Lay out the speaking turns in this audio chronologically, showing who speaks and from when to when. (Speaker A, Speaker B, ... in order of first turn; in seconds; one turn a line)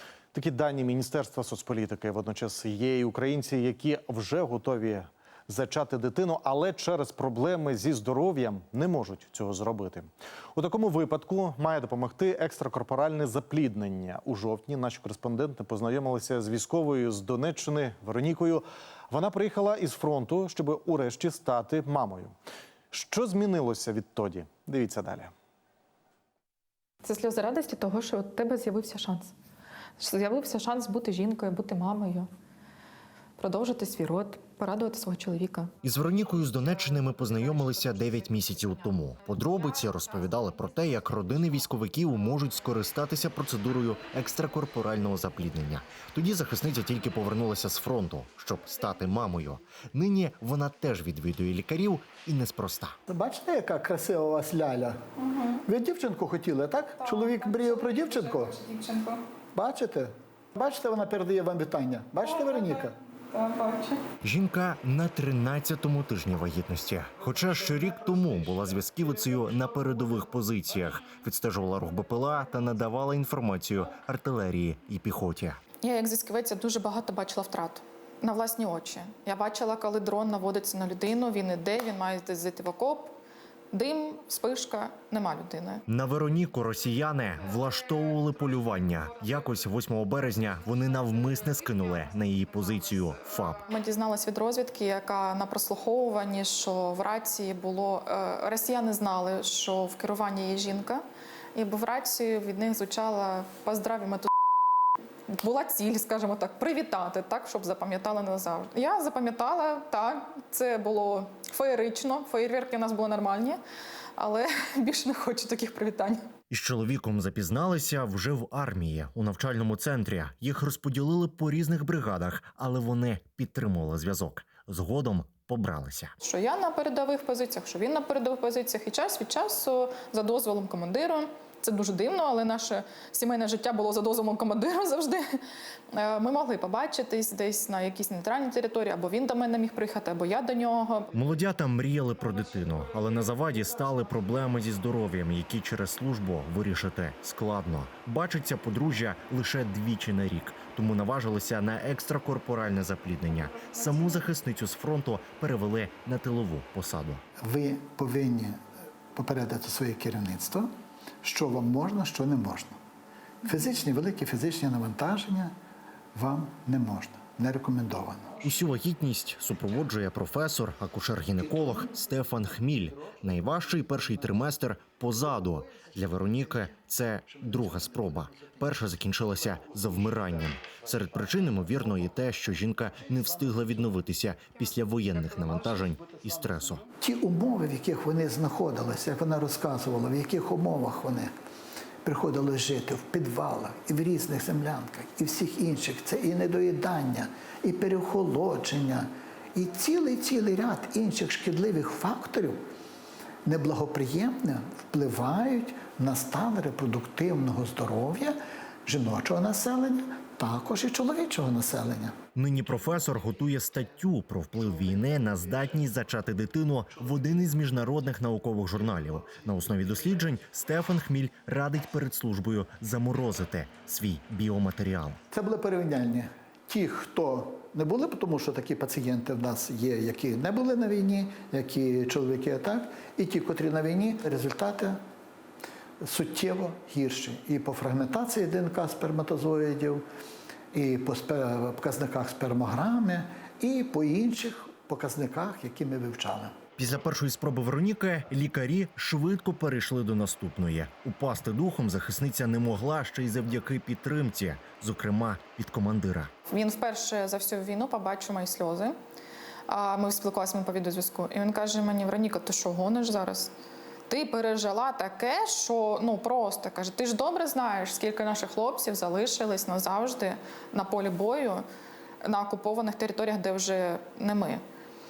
Speaker A: 0.3-22.3
Speaker A: 22.9-25.3
Speaker B: 27.0-29.3
Speaker B: 30.0-32.3
Speaker B: 33.4-35.7
Speaker C: 35.8-53.0
Speaker D: 53.1-55.0
Speaker B: 55.2-55.6
Speaker D: 55.7-58.5
Speaker B: 57.0-59.2
Speaker D: 59.5-63.0
Speaker B: 62.2-64.0
Speaker C: 64.2-75.6
Speaker B: 75.8-83.2
Speaker B: 83.7-85.8
Speaker C: 85.9-93.6
Speaker B: 93.7-101.0
Speaker B: 101.5-104.3
Speaker B: 105.3-113.6
Speaker B: 114.2-116.2
Speaker C: 116.5-126.1
Speaker B: 126.2-135.2
Speaker B: 135.9-141.1
Speaker C: 141.1-157.2
Speaker D: 157.4-158.6
Speaker D: 159.2-160.7
Speaker D: 161.2-162.8
Speaker D: 163.4-165.5
Speaker D: 166.2-168.4
Speaker C: 168.4-186.8
Speaker D: 187.0-191.3
Speaker D: 192.0-202.6
Speaker D: 203.4-212.2
Speaker C: 212.3-225.2
Speaker D: 225.3-235.0
Speaker D: 236.0-240.0
Speaker D: 240.7-246.6
Speaker C: 246.8-256.3
Speaker B: 256.5-259.0
Speaker B: 259.7-263.5
Speaker B: 264.1-271.6
Speaker B: 272.2-274.6